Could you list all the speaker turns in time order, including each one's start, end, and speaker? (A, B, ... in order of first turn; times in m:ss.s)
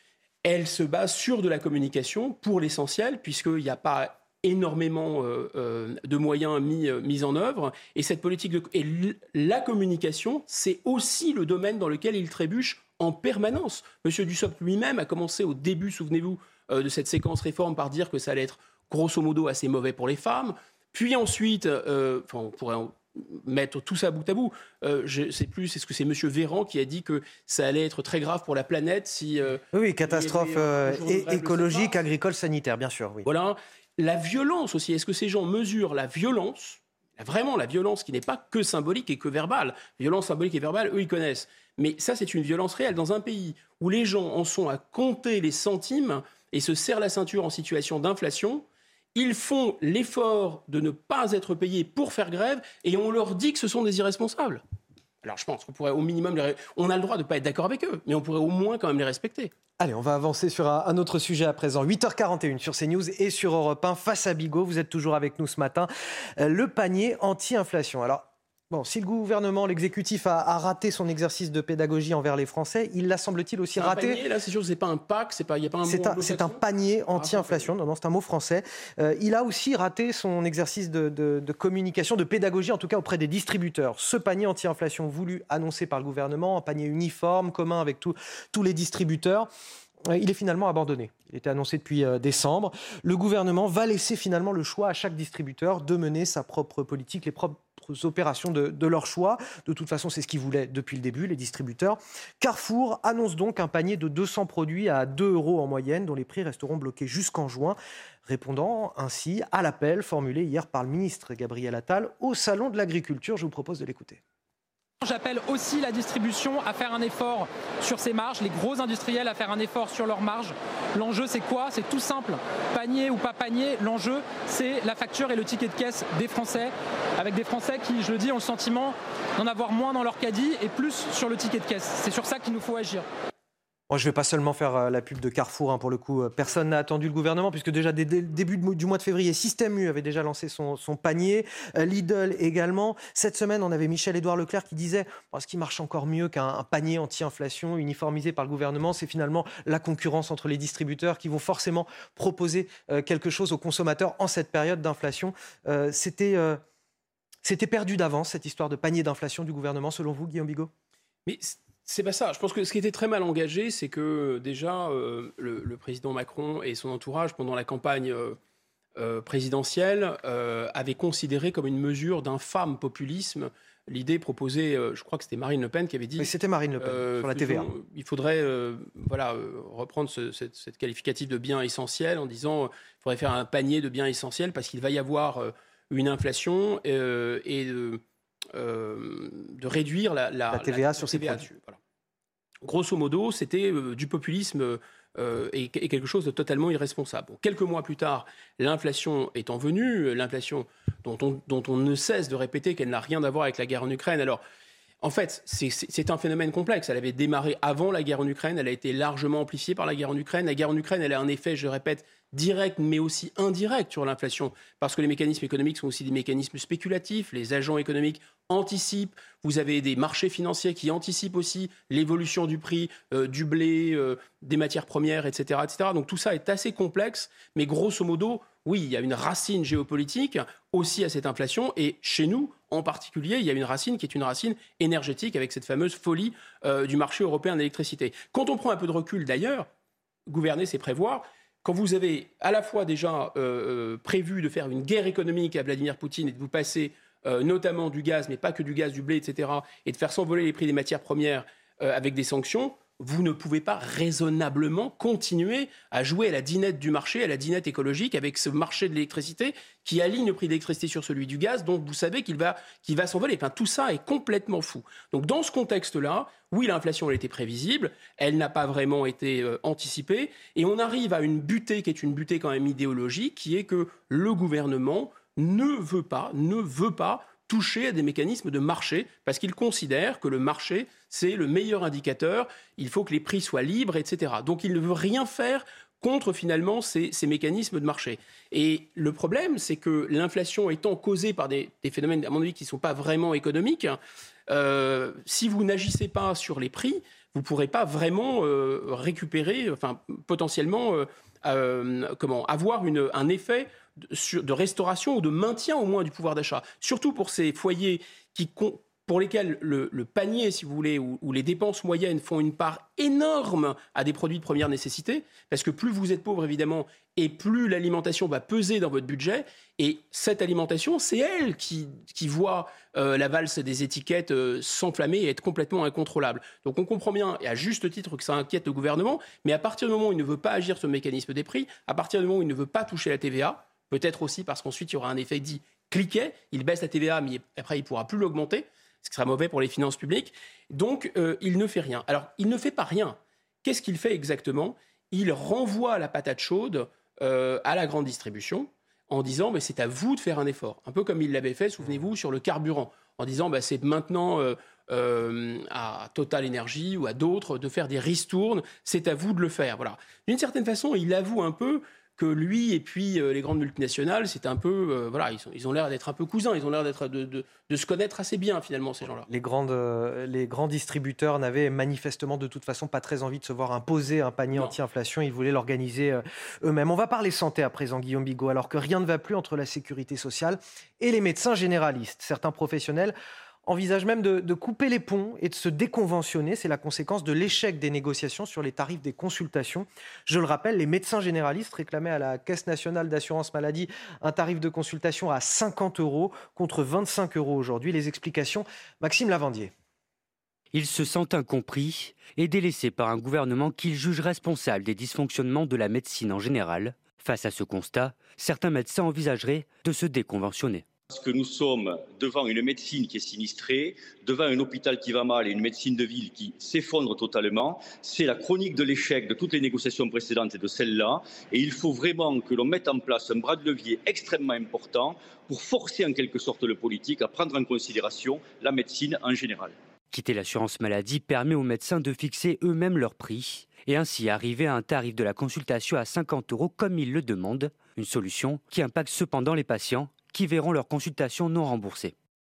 0:00.4-0:32.0 A
0:29.7-0:33.3 B
0:33.2-0:54.6 A
0:55.2-0:59.5 A
0:59.8-1:14.2 B
1:13.8-1:16.6 A
1:15.8-1:29.5 B
1:17.1-1:17.7 A
1:30.1-1:54.2 B
1:55.0-2:13.1 C
2:13.9-2:36.6 B
2:37.4-2:40.7 B
2:41.3-2:48.4 A
2:49.0-3:08.0 A
2:56.2-2:57.7 B
3:08.5-3:11.8 A
3:10.5-3:11.4 B
3:12.6-3:24.4 A
3:25.0-3:59.7 A
4:00.3-6:09.3 A
6:09.3-6:23.1 B
6:23.6-6:39.7 B
6:40.7-6:50.9 D
6:51.1-7:09.8 E
7:10.1-7:22.2 D